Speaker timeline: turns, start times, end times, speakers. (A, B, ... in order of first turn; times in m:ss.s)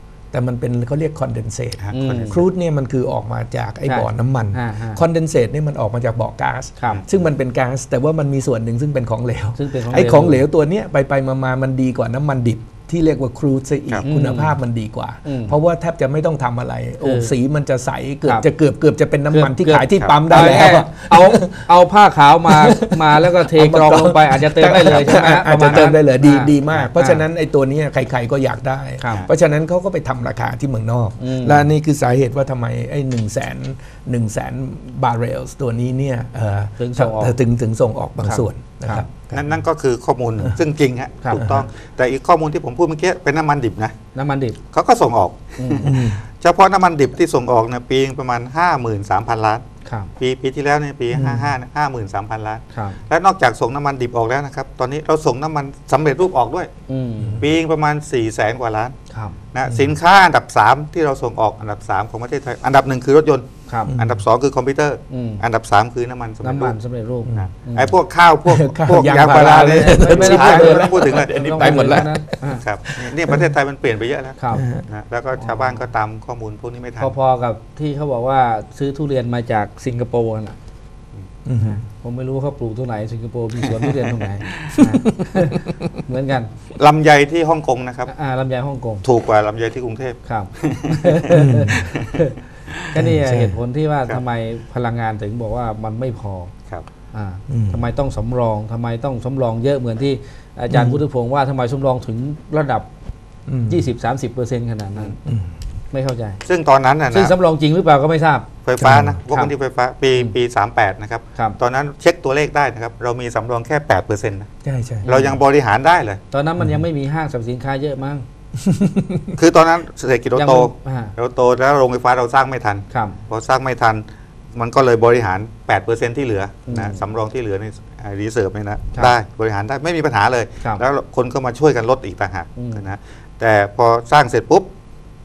0:00.3-0:21.7 A
0:01.8-0:02.4 B
0:01.9-0:02.4 C
0:03.8-0:05.0 C
0:06.8-0:07.0 C
0:09.6-0:10.4 C
0:14.0-0:14.6 C
0:15.2-0:15.6 C
0:17.0-0:17.4 C
0:19.3-0:27.2 C
0:22.4-0:39.5 A
0:31.2-0:31.7 C
0:36.8-0:37.4 C
0:38.2-0:39.1 C
0:39.3-0:43.9 B
0:41.4-0:41.6 A
0:44.1-0:44.6 C
0:44.7-0:49.6 B
0:45.6-0:46.0 C
0:45.8-0:46.2 A
0:49.8-0:50.1 C
0:50.2-0:56.7 B
0:51.1-0:51.5 A
0:56.9-0:57.4 C
0:57.4-0:58.9 B
0:59.1-0:59.4 C
0:59.5-1:06.8 B
1:03.9-1:04.2 A
1:05.1-1:05.4 C
1:06.4-1:07.9 C
1:07.3-1:17.2 B
1:08.5-1:13.5 A
1:09.1-1:12.6 C
1:14.4-1:14.6 C
1:14.5-1:14.8 A
1:15.4-1:15.8 C
1:17.0-1:20.6 C
1:21.4-1:21.8 A
1:21.6-1:26.5 C
1:23.7-1:24.8 B
1:24.7-1:26.0 A
1:26.8-1:28.1 B
1:28.1-1:29.0 C
1:29.0-1:31.2 B
1:30.2-1:32.4 C
1:31.3-1:31.9 A
1:31.8-1:32.2 B
1:32.9-1:36.5 C
1:32.9-1:33.6 A
1:37.1-1:42.8 C
1:37.5-1:37.9 A
1:40.7-1:41.0 A
1:43.5-1:43.9 A
1:43.7-1:45.2 C
1:45.2-1:45.6 A
1:45.9-1:46.4 C
1:46.4-1:47.3 B
1:47.1-1:48.5 C
1:48.6-1:54.5 B
1:48.8-1:49.2 A
1:54.6-1:55.1 A
1:55.0-1:55.4 C
1:55.0-1:56.2 B
1:56.3-1:58.2 C
1:56.6-1:56.8 A
1:58.6-1:59.3 A
1:59.4-2:04.0 B
2:00.3-2:01.1 C
2:02.9-2:03.2 C
2:04.5-2:14.7 B
2:06.7-2:07.0 C
2:12.6-2:12.8 C